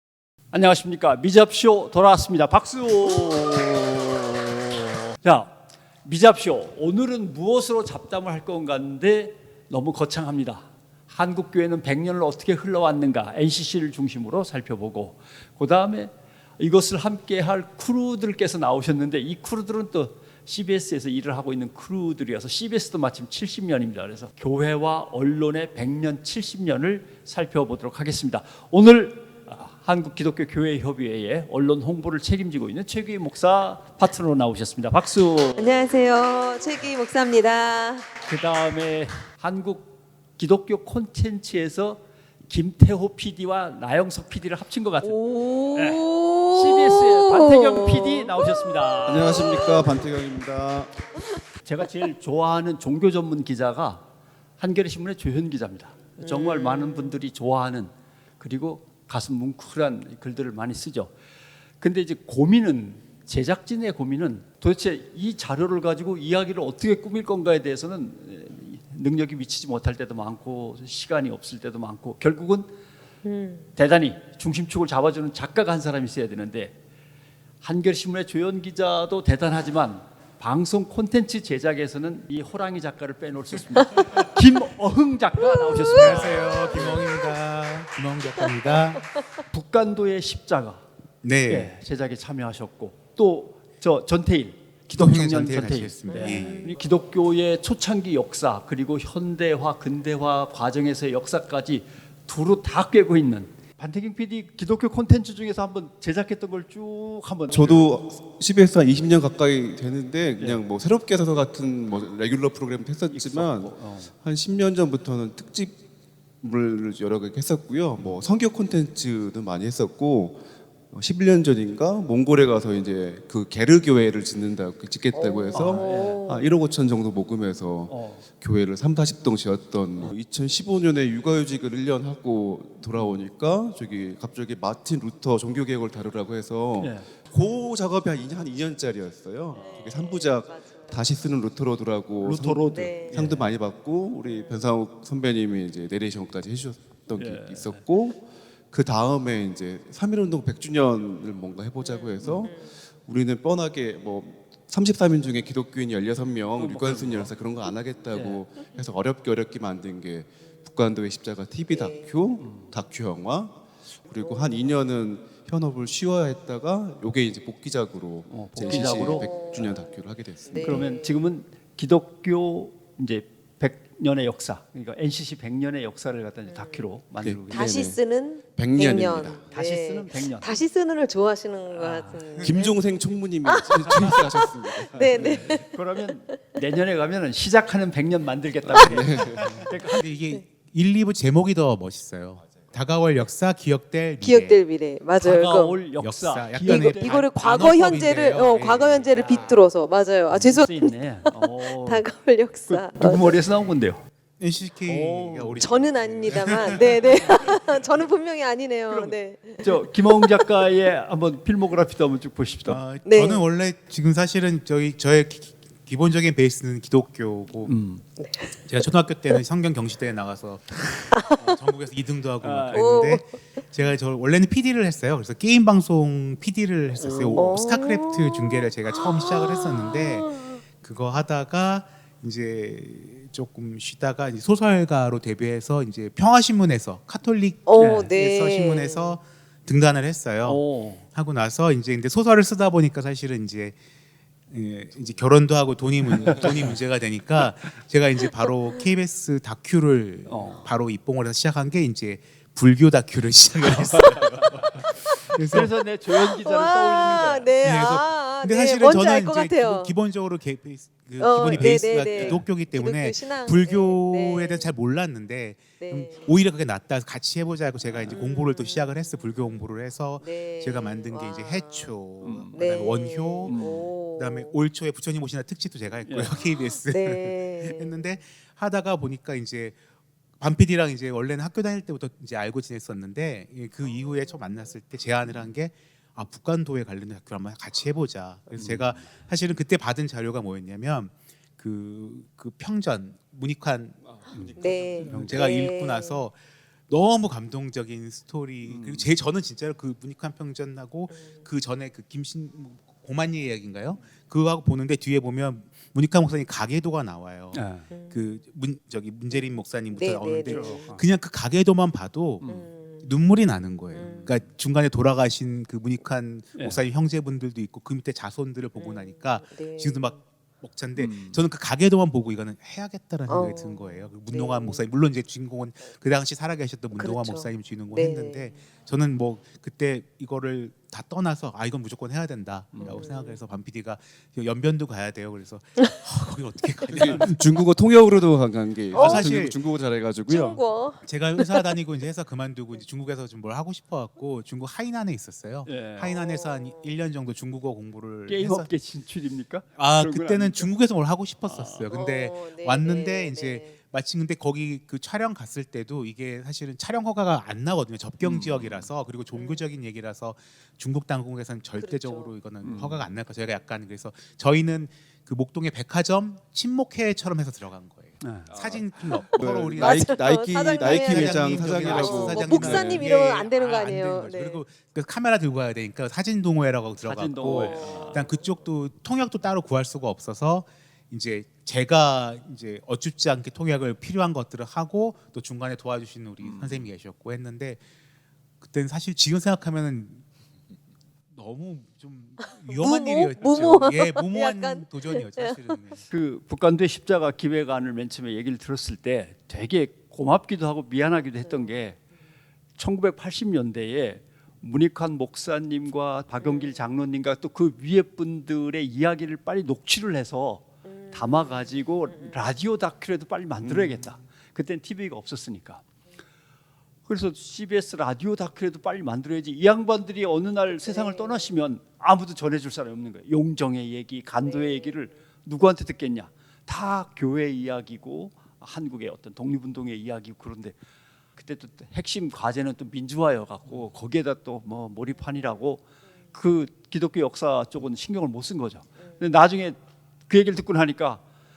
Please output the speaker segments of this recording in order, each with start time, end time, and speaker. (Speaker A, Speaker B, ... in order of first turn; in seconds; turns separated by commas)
Speaker A: 0.5-35.9, Speaker B: 35.5-38.1, Speaker A: 38.3-50.0, Speaker B: 45.0-48.5, Speaker C: 49.0-50.9, Speaker B: 49.1-50.0, Speaker A: 51.6-54.0, Speaker A: 54.6-61.1, Speaker B: 56.2-57.2, Speaker A: 61.8-72.7, Speaker B: 73.2-73.7, Speaker A: 73.7-76.7, Speaker A: 77.6-87.0, Speaker B: 85.5-87.2, Speaker D: 85.9-89.0, Speaker B: 88.5-89.0, Speaker A: 89.5-90.8, Speaker D: 91.2-91.8, Speaker A: 91.5-107.9, Speaker D: 94.9-96.7, Speaker B: 96.1-96.8, Speaker C: 107.5-115.8, Speaker A: 110.4-110.6, Speaker A: 113.1-114.1, Speaker C: 116.4-170.8, Speaker A: 118.0-118.3, Speaker B: 125.1-126.5, Speaker A: 125.5-126.2, Speaker A: 127.9-128.2, Speaker A: 132.9-133.2, Speaker A: 136.8-137.1, Speaker B: 139.5-141.1, Speaker A: 142.2-143.5, Speaker B: 142.7-143.3, Speaker B: 144.2-144.7, Speaker A: 147.1-147.8, Speaker B: 151.8-152.8, Speaker A: 152.2-152.5, Speaker A: 156.6-157.3, Speaker A: 158.1-158.4, Speaker B: 161.7-162.2, Speaker A: 162.4-162.7, Speaker B: 164.2-164.8, Speaker A: 168.3-169.8, Speaker B: 169.0-169.8, Speaker B: 170.4-171.2, Speaker A: 170.5-177.7, Speaker B: 176.5-176.9, Speaker C: 177.2-178.0, Speaker B: 177.5-182.9, Speaker C: 178.6-179.4, Speaker A: 179.5-180.6, Speaker A: 181.7-182.6, Speaker C: 182.4-185.6, Speaker B: 183.4-185.8, Speaker A: 185.1-190.0, Speaker C: 188.6-189.6, Speaker D: 189.4-194.6, Speaker B: 194.2-195.8, Speaker A: 195.2-197.2, Speaker D: 196.0-199.7, Speaker B: 196.7-203.4, Speaker A: 200.3-202.1, Speaker A: 202.7-204.0, Speaker D: 204.4-207.8, Speaker A: 204.8-205.7, Speaker B: 205.6-210.3, Speaker A: 208.9-212.8, Speaker D: 212.7-217.7, Speaker B: 213.0-213.4, Speaker A: 217.7-218.0, Speaker B: 218.2-218.6, Speaker D: 218.6-243.8, Speaker B: 221.1-221.4, Speaker A: 222.4-222.9, Speaker B: 222.7-223.3, Speaker A: 227.0-227.6, Speaker B: 227.3-230.6, Speaker B: 237.7-239.2, Speaker A: 237.8-238.1, Speaker A: 240.4-241.0, Speaker D: 244.5-255.7, Speaker A: 246.2-246.7, Speaker A: 250.2-250.7, Speaker A: 253.9-257.5, Speaker B: 256.1-259.9, Speaker D: 257.6-279.8, Speaker B: 261.2-264.7, Speaker A: 261.6-262.4, Speaker B: 265.8-266.3, Speaker A: 267.9-268.2, Speaker B: 268.1-269.3, Speaker B: 270.2-272.0, Speaker A: 272.2-272.9, Speaker B: 272.5-274.6, Speaker A: 273.4-273.9, Speaker A: 276.1-276.3, Speaker B: 276.8-278.2, Speaker D: 280.4-294.5, Speaker A: 285.2-285.5, Speaker A: 288.6-289.1, Speaker A: 294.3-295.4, Speaker B: 294.5-296.2, Speaker D: 295.0-296.4, Speaker D: 296.9-312.5, Speaker A: 298.6-299.1, Speaker B: 301.1-301.4, Speaker A: 307.5-307.9, Speaker B: 307.9-308.4, Speaker B: 309.3-311.0, Speaker A: 310.5-311.0, Speaker A: 312.4-312.7, Speaker B: 312.4-313.1, Speaker D: 313.0-337.4, Speaker A: 313.9-314.4, Speaker B: 313.9-314.4, Speaker B: 318.8-320.2, Speaker A: 320.9-321.4, Speaker B: 323.3-324.9, Speaker B: 326.9-328.6, Speaker A: 332.7-333.0, Speaker B: 332.8-333.4, Speaker C: 336.9-340.6, Speaker B: 336.9-337.2, Speaker D: 338.9-339.6, Speaker B: 338.9-339.3, Speaker B: 340.3-341.6, Speaker D: 341.0-348.7, Speaker A: 345.6-346.1, Speaker B: 346.0-347.1, Speaker A: 348.3-350.7, Speaker D: 349.8-370.2, Speaker A: 351.4-352.0, Speaker B: 351.9-353.8, Speaker A: 358.2-358.9, Speaker B: 359.3-359.7, Speaker B: 361.8-362.3, Speaker A: 362.6-363.1, Speaker A: 368.2-369.2, Speaker C: 369.4-373.1, Speaker B: 369.7-374.6, Speaker D: 370.8-387.8, Speaker A: 377.0-378.3, Speaker B: 377.4-378.4, Speaker A: 386.4-386.9, Speaker D: 388.6-390.2, Speaker D: 391.3-396.0, Speaker B: 392.7-395.8, Speaker A: 393.4-393.9, Speaker A: 396.1-402.0, Speaker B: 401.4-401.8, Speaker A: 402.8-415.8, Speaker B: 406.4-406.8, Speaker B: 410.9-412.4, Speaker C: 413.6-414.1, Speaker A: 417.1-430.8, Speaker B: 420.7-421.5, Speaker B: 424.4-425.2, Speaker A: 431.4-441.2